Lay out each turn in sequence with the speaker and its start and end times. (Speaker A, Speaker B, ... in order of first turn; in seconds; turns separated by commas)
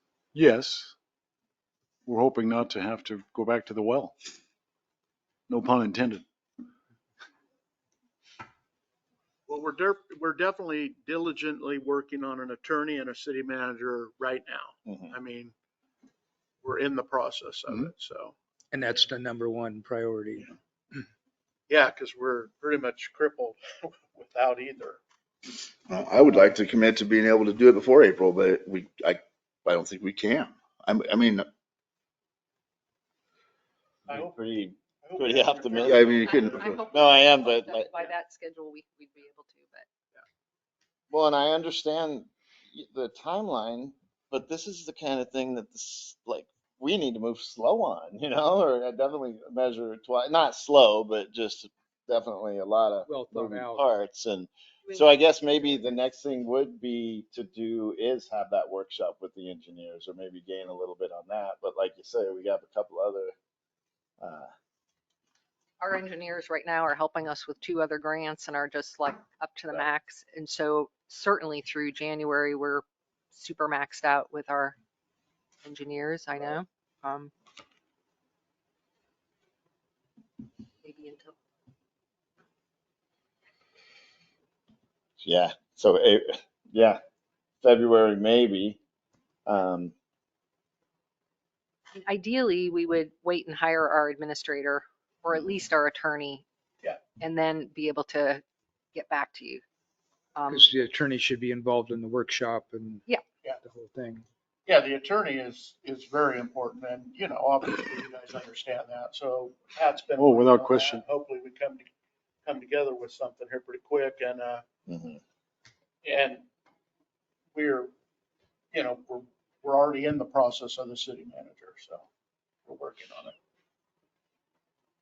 Speaker A: 0.3-0.9, Speaker A: 2.0-4.1, Speaker A: 5.5-6.2, Speaker B: 9.5-15.5, Speaker C: 14.8-15.1, Speaker B: 16.6-18.3, Speaker D: 18.7-20.5, Speaker B: 21.7-25.0, Speaker E: 25.9-31.5, Speaker B: 34.1-34.4, Speaker C: 34.1-38.0, Speaker B: 35.0-36.6, Speaker E: 35.8-36.8, Speaker F: 36.2-39.9, Speaker C: 41.1-63.3, Speaker D: 53.0-53.8, Speaker F: 54.9-55.7, Speaker C: 64.2-64.5, Speaker F: 65.8-74.8, Speaker F: 75.6-77.3, Speaker F: 80.8-81.3, Speaker C: 85.2-87.0, Speaker C: 87.6-88.8, Speaker C: 89.5-89.9, Speaker F: 91.9-96.4, Speaker F: 97.2-99.6, Speaker F: 100.3-100.8, Speaker D: 100.5-103.1, Speaker D: 103.6-104.2, Speaker B: 104.7-111.9, Speaker A: 110.2-111.0, Speaker B: 112.4-114.6, Speaker C: 114.9-115.2, Speaker B: 116.0-116.4, Speaker B: 117.5-117.9, Speaker B: 118.7-122.0, Speaker B: 122.6-123.3